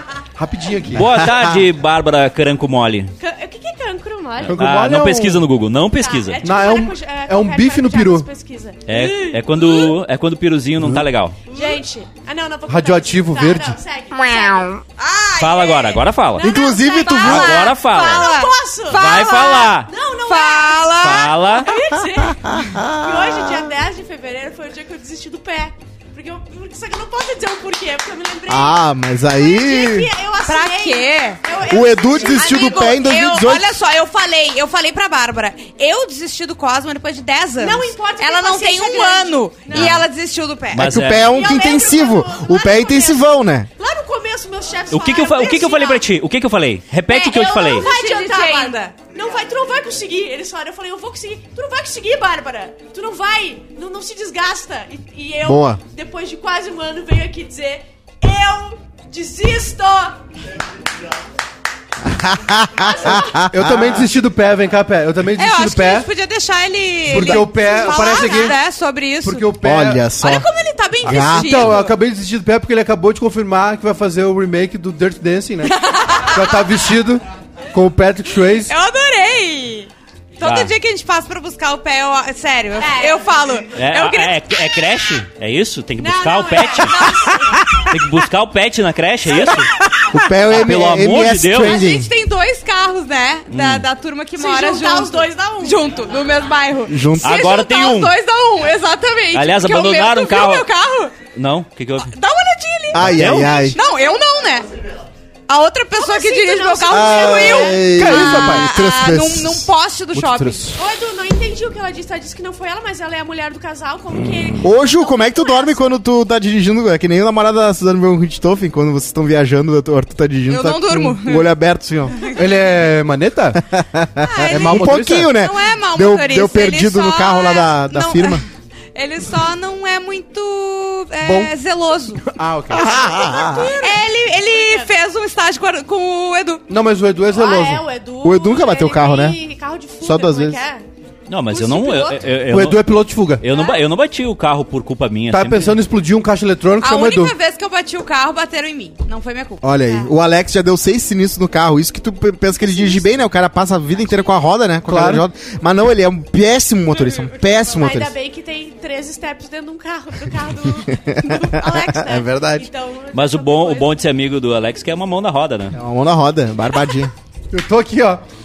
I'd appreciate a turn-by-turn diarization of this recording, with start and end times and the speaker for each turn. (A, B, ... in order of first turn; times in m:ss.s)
0:00.4-0:01.1 A
0:00.9-0:03.1 B
0:01.2-0:01.6 C
0:03.2-0:04.6 D
0:04.4-0:06.5 B
0:04.5-0:05.4 A
0:06.0-0:09.9 D
0:06.4-0:08.3 A
0:08.9-0:11.4 B
0:11.5-0:14.8 D
0:12.7-0:13.8 A
0:14.1-0:21.7 E
0:15.4-0:16.4 B
0:16.4-0:28.8 D
0:16.4-0:17.6 C
0:17.2-0:18.3 B
0:18.9-0:19.9 B
0:21.0-0:21.7 B
0:22.2-0:23.7 C
0:28.5-0:30.1 C
0:29.3-0:33.1 D
0:30.4-0:31.4 E
0:31.7-0:33.6 C
0:32.1-0:40.9 E
0:37.6-0:40.0 D
0:39.7-0:40.0 B
0:40.8-0:41.4 B
0:40.8-0:43.7 C
0:41.2-0:46.0 D
0:44.9-0:47.9 B
0:47.1-0:48.9 E
0:47.3-1:00.2 D
0:55.4-0:55.8 C
1:02.0-1:04.1 C
1:02.7-1:03.5 D
1:03.5-1:06.1 A
1:05.3-1:09.5 E
1:07.1-1:08.6 A
1:07.1-1:08.6 D
1:09.2-1:10.1 A
1:09.6-1:10.5 C
1:10.2-1:11.9 E
1:11.0-1:11.8 C
1:11.0-1:18.7 A
1:15.6-1:16.5 E
1:18.7-1:19.9 E
1:20.4-1:24.8 E
1:20.4-1:20.7 B
1:22.8-1:23.3 D
1:23.8-1:27.1 B
1:26.0-1:27.6 D
1:26.6-1:27.6 E
1:27.9-1:29.7 B
1:29.4-1:30.1 E
1:30.1-1:32.1 C
1:30.4-1:31.8 B
1:31.5-1:41.2 E
1:33.5-1:33.9 B
1:34.4-1:35.8 D
1:36.9-1:37.4 C
1:37.2-1:38.2 B
1:39.3-1:40.7 B
1:41.3-1:42.1 B
1:42.0-1:44.7 E
1:42.9-1:43.8 C
1:43.0-1:43.6 B
1:45.5-1:50.7 E
1:46.0-1:47.8 D
1:46.9-1:49.7 C
1:47.9-1:48.7 A
1:50.1-1:50.8 A
1:50.8-1:55.8 D
1:54.6-2:02.3 C
2:00.5-2:01.5 E
2:02.1-2:02.5 E
2:02.3-2:03.6 A
2:03.6-2:08.4 C
2:04.2-2:12.2 E
2:04.5-2:05.3 A
2:11.2-2:11.5 A
2:12.3-2:13.2 A
2:12.7-2:13.7 C
2:12.8-2:14.9 D
2:13.8-2:16.6 E
2:16.7-2:17.8 A
2:17.3-2:20.8 D
2:18.2-2:19.4 C
2:20.0-2:20.6 C
2:21.3-2:25.8 B
2:21.5-2:22.2 D
2:22.5-2:23.4 A
2:23.5-2:23.8 D
2:25.3-2:27.4 A
2:26.8-2:30.1 E
2:29.6-2:38.1 C
2:34.9-2:35.2 A
2:37.4-2:43.9 D
2:40.9-2:42.7 C
2:43.1-2:45.8 B
2:45.7-2:47.1 C
2:47.5-2:48.2 A